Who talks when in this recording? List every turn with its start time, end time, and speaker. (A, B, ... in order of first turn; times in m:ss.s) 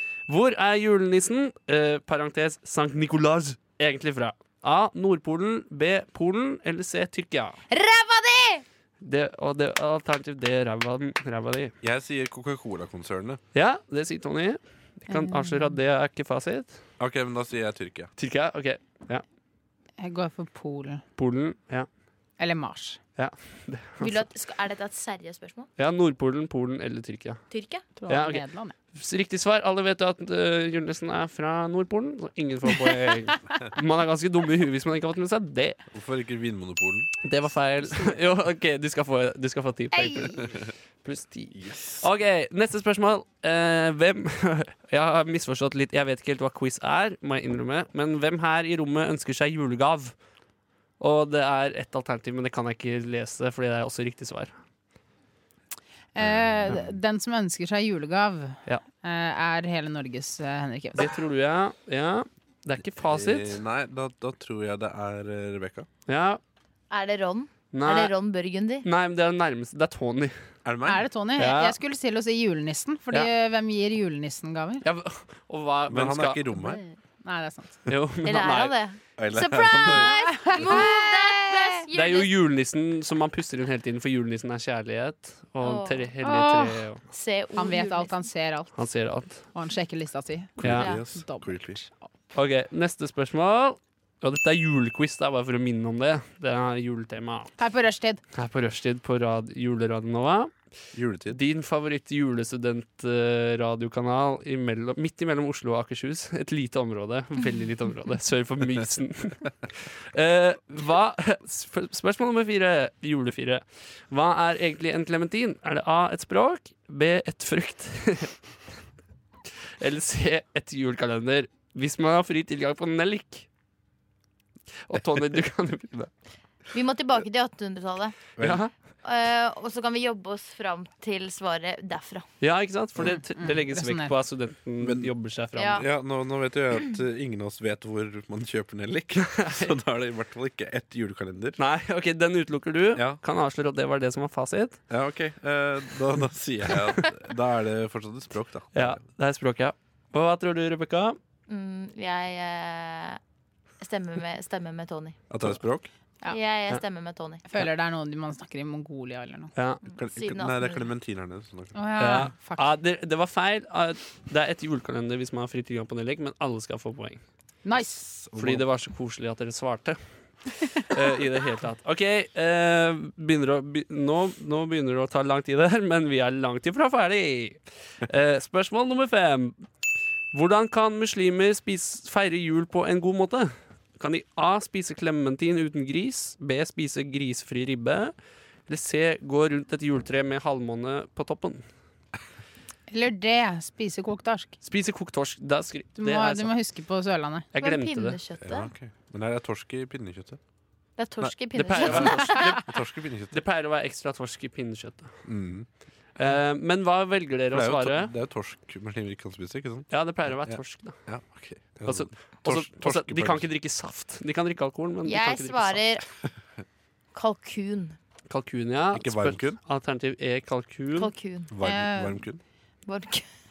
0:00.3-0:07.6 A
0:07.7-0:08.6 B
0:09.0-0:11.7 A
0:11.8-0:13.4 C
0:13.5-0:16.8 A
0:15.1-0:15.8 B
0:17.0-0:18.1 C
0:18.2-0:19.2 A
0:20.0-0:21.0 B
0:21.2-0:21.9 A
0:22.4-0:23.0 B
0:23.2-0:24.2 A
0:24.0-0:25.7 D
0:25.8-0:27.4 A
0:27.5-0:27.8 D
0:28.0-0:28.7 B
0:28.1-0:35.8 A
0:35.9-0:37.1 C
0:37.2-0:40.5 A
0:39.9-0:40.4 B
0:41.0-0:50.1 A
0:41.5-0:42.0 C
0:51.0-0:54.5 A
0:56.1-1:01.1 B
0:56.2-0:57.0 C
1:00.9-1:03.6 A
1:02.9-1:05.9 C
1:06.1-1:06.4 A
1:06.9-1:08.8 D
1:07.7-1:08.1 A
1:08.8-1:10.3 A
1:10.6-1:11.0 C
1:10.8-1:14.8 B
1:11.4-1:11.8 A
1:14.8-1:16.4 A
1:15.9-1:16.8 C
1:16.6-1:17.8 B
1:17.9-1:18.7 A
1:18.2-1:22.3 D
1:19.2-1:20.1 C
1:19.9-1:21.8 B
1:21.9-1:27.0 A
1:25.6-1:26.1 D
1:26.2-1:26.8 B
1:27.1-1:28.3 D
1:27.5-1:28.8 B
1:28.8-1:29.4 A
1:29.5-1:31.9 B
1:30.6-1:31.8 C
1:30.6-1:30.9 A
1:30.8-1:31.0 D
1:32.3-1:37.5 A
1:37.6-1:38.2 B
1:38.3-1:40.5 A
1:40.9-1:41.4 C
1:41.3-1:58.3 A
1:59.8-2:03.5 A
2:04.9-2:06.1 A
2:06.7-2:08.2 D
2:08.4-2:08.7 A
2:09.0-2:12.2 D
2:12.4-2:15.8 A
2:13.0-2:14.1 B
2:14.8-2:15.1 C
2:15.6-2:15.8 D
2:15.8-2:21.6 C
2:19.4-2:19.7 A
2:21.6-2:24.8 A
2:24.9-2:29.0 C
2:28.7-2:31.2 A
2:31.5-2:33.2 D
2:33.8-2:35.2 D
2:35.3-2:35.9 C
2:36.3-2:37.4 D
2:37.5-2:39.5 B
2:39.6-2:39.8 A
2:39.9-2:40.9 D
2:39.9-2:41.8 C
2:41.7-2:42.7 B
2:42.0-2:47.2 A
2:47.6-2:48.0 B
2:48.0-2:48.6 C
2:48.4-2:50.0 A
2:50.8-2:59.6 A
3:00.3-3:08.1 A
3:08.7-3:11.6 A
3:12.9-3:14.6 B
3:14.6-3:16.5 A
3:16.0-3:17.5 B
3:17.5-3:18.2 A
3:17.6-3:18.7 D
3:18.4-3:20.4 C
3:21.0-3:22.4 D
3:21.2-3:23.4 C
3:21.5-3:22.6 A
3:23.3-3:25.1 A
3:25.2-3:25.7 C
3:26.2-3:28.1 A
3:27.5-3:33.5 C
3:29.9-3:31.0 A
3:31.8-3:35.8 A
3:35.0-3:36.0 D
3:37.1-3:38.0 D
3:38.3-3:41.1 A
3:38.9-3:39.6 C
3:41.0-3:41.5 D
3:41.5-3:42.4 C
3:41.6-3:42.2 B
3:42.8-3:43.2 D